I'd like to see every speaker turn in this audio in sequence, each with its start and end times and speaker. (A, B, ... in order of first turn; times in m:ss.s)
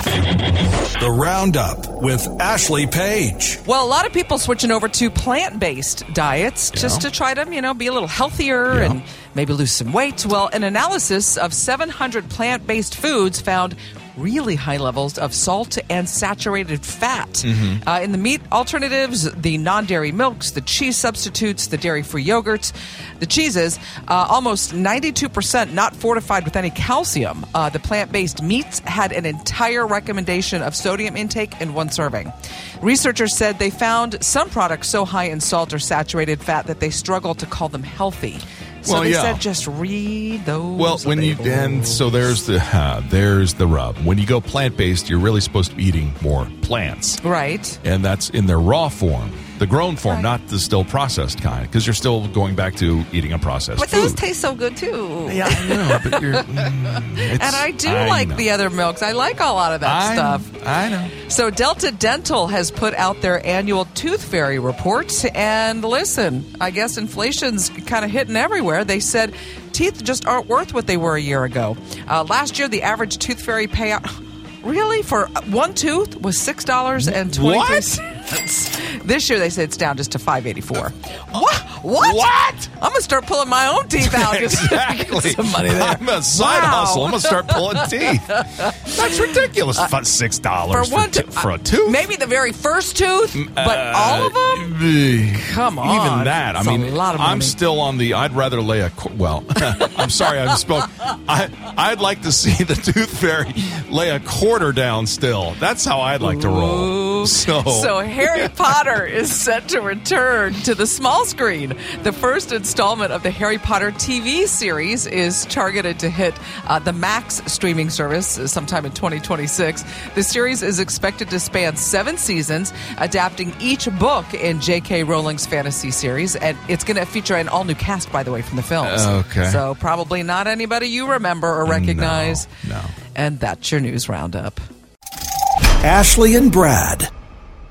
0:01.0-0:03.6 A
0:03.6-0:42.0 B
0:06.7-0:07.0 C
0:08.7-0:09.0 C
0:17.4-0:17.8 C
0:38.8-0:39.4 C
0:40.8-0:47.2 C
0:47.2-0:47.8 B
0:47.8-0:54.2 C
0:53.8-1:00.5 B
0:55.2-0:58.5 C
0:59.8-1:01.1 C
1:01.2-1:29.4 B
1:17.0-1:17.9 C
1:22.0-1:22.7 C
1:24.0-1:32.0 C
1:30.7-1:34.7 B
1:33.3-1:48.5 C
1:35.3-1:37.6 B
1:39.8-1:40.3 B
1:46.2-2:12.5 B
2:08.8-2:09.6 C
2:11.6-2:13.0 C
2:13.1-2:14.6 B
2:15.8-2:17.1 A